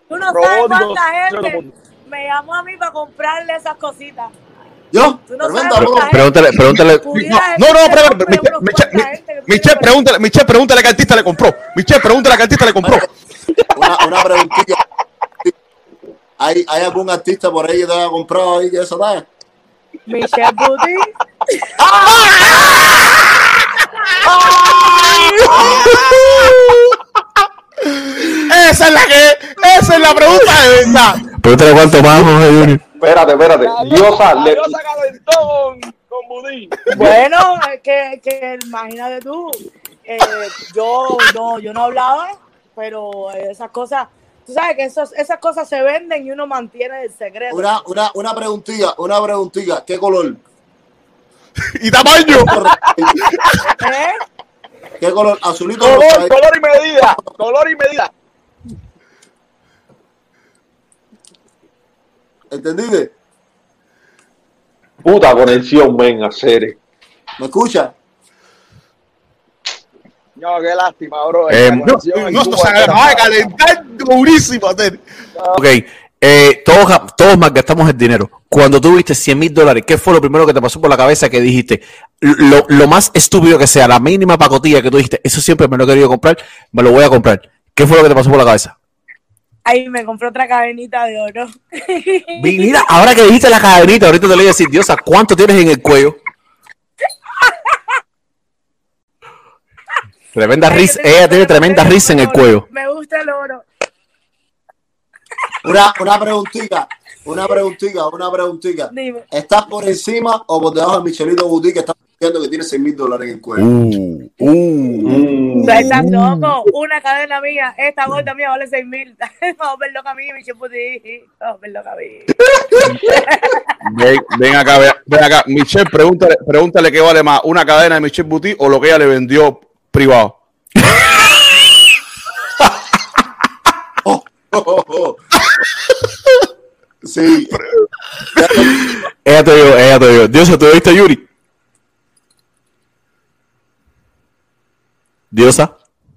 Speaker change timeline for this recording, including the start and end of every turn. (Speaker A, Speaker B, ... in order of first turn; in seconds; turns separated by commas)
Speaker A: 0.1-4.3, Speaker B: 0.3-1.7, Speaker C: 4.9-6.1, Speaker A: 5.3-10.0, Speaker D: 6.1-7.1, Speaker E: 7.1-13.0, Speaker C: 12.8-13.1, Speaker C: 13.7-14.8, Speaker C: 16.4-19.3, Speaker A: 20.1-21.1, Speaker E: 21.8-23.2, Speaker B: 24.4-24.9, Speaker E: 24.6-26.8, Speaker A: 24.8-25.7, Speaker E: 28.3-31.2, Speaker D: 31.2-32.8, Speaker F: 33.0-34.8, Speaker B: 33.6-37.0, Speaker A: 36.9-47.7, Speaker C: 47.5-50.4, Speaker E: 51.8-52.5, Speaker C: 52.3-53.1, Speaker A: 53.8-54.2, Speaker C: 55.0-56.3, Speaker B: 55.8-58.1, Speaker C: 62.5-63.1, Speaker F: 65.0-66.8, Speaker C: 67.4-67.9, Speaker B: 70.4-73.5, Speaker D: 71.5-71.9, Speaker E: 71.8-75.0, Speaker D: 75.5-88.7, Speaker A: 89.7-92.8, Speaker D: 92.4-96.2, Speaker A: 97.4-97.8, Speaker D: 100.3-102.6, Speaker A: 100.7-103.6, Speaker C: 105.6-113.7, Speaker A: 108.9-109.2, Speaker E: 113.6-116.5, Speaker F: 115.0-115.8, Speaker A: 115.6-122.3, Speaker A: 123.0-123.7, Speaker E: 123.8-130.4, Speaker C: 134.0-135.2, Speaker C: 137.0-137.6, Speaker C: 138.4-138.7, Speaker D: 139.2-141.2, Speaker D: 145.3-145.7